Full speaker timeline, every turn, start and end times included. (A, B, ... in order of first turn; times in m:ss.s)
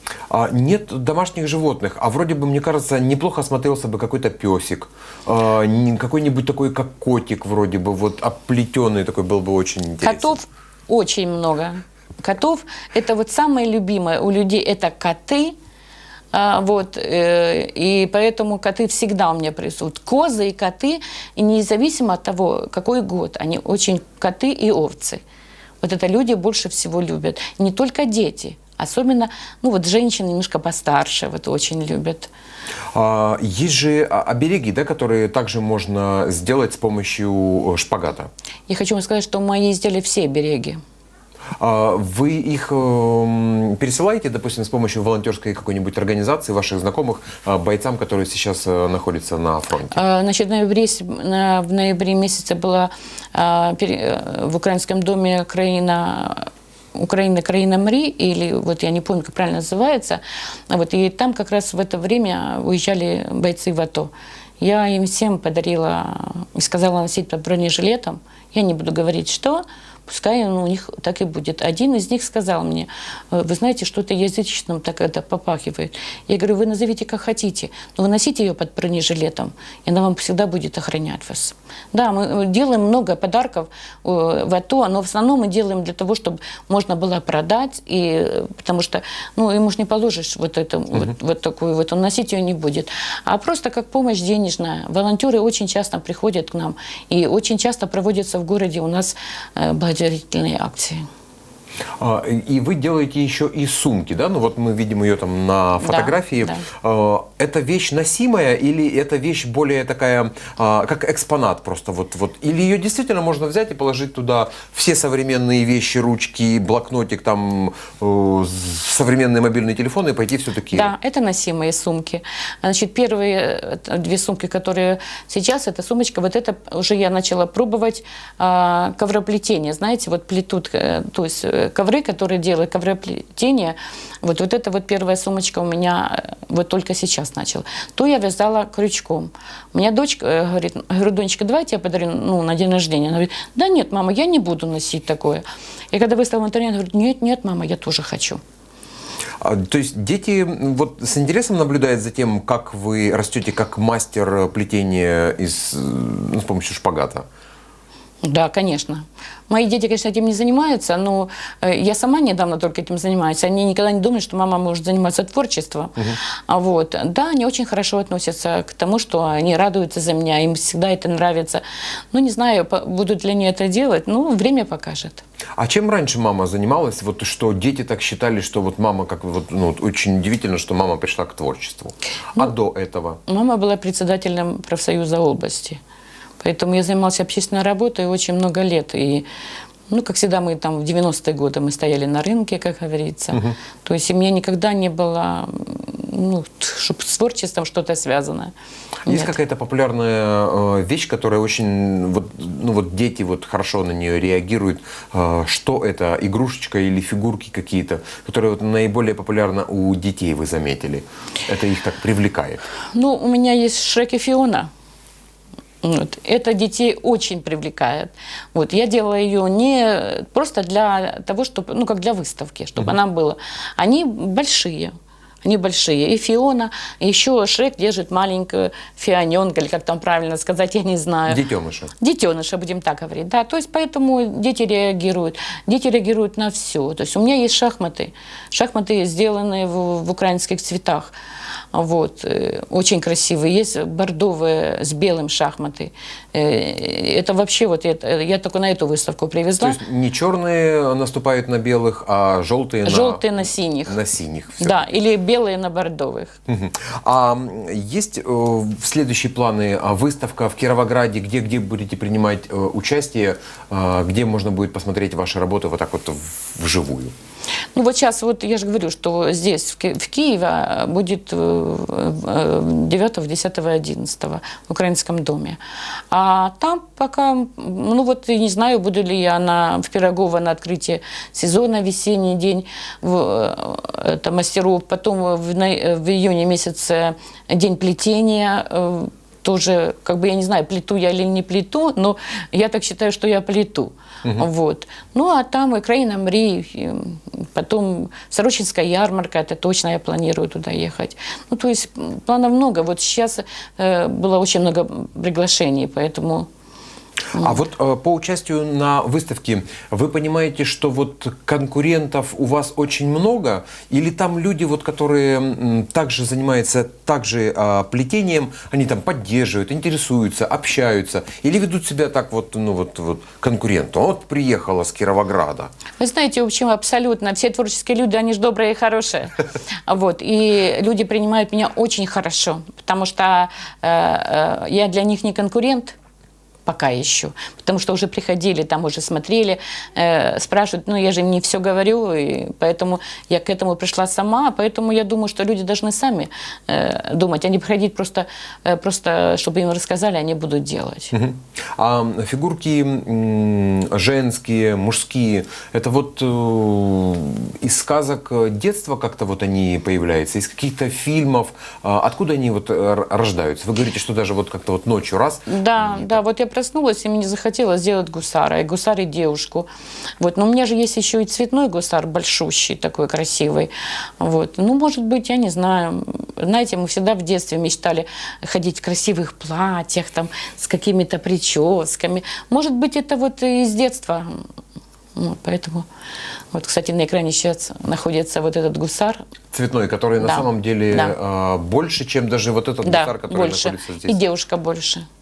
0:00.3-0:10.4 A
0:10.0-0:15.5 B
0:16.3-0:25.2 B
0:25.8-0:32.3 B
0:32.9-0:38.3 A
0:38.7-0:40.8 B
0:41.6-0:50.0 A
0:49.9-1:41.0 B
1:42.0-2:00.9 A
1:45.8-1:46.6 B
2:00.7-2:28.4 B
2:29.4-2:37.2 A
2:38.2-2:46.0 B
2:46.5-2:55.2 B
2:55.6-3:03.2 A
3:03.3-3:05.8 B
3:06.4-3:09.2 B
3:09.9-3:18.5 B
3:19.0-3:32.6 A
3:19.1-3:19.3 B
3:32.9-3:34.7 B
3:35.8-3:44.9 B
3:45.4-3:51.4 B
3:51.3-3:51.9 A
3:52.0-4:01.1 B
4:01.7-4:09.8 B
4:09.6-4:14.8 A
4:12.8-4:14.0 B
4:14.6-4:16.4 B
4:16.5-4:27.1 A
4:27.7-4:35.6 B
4:36.1-5:06.5 B
5:07.3-5:07.6 B
5:07.3-5:25.7 A
5:26.0-5:36.0 B
5:36.6-5:51.1 B
5:51.1-6:06.2 A
6:05.5-6:09.7 B
6:10.2-6:24.4 B
6:25.2-6:25.9 B
6:26.5-6:29.2 B
6:29.5-6:34.2 A
6:30.2-6:31.1 B
6:32.8-6:35.0 B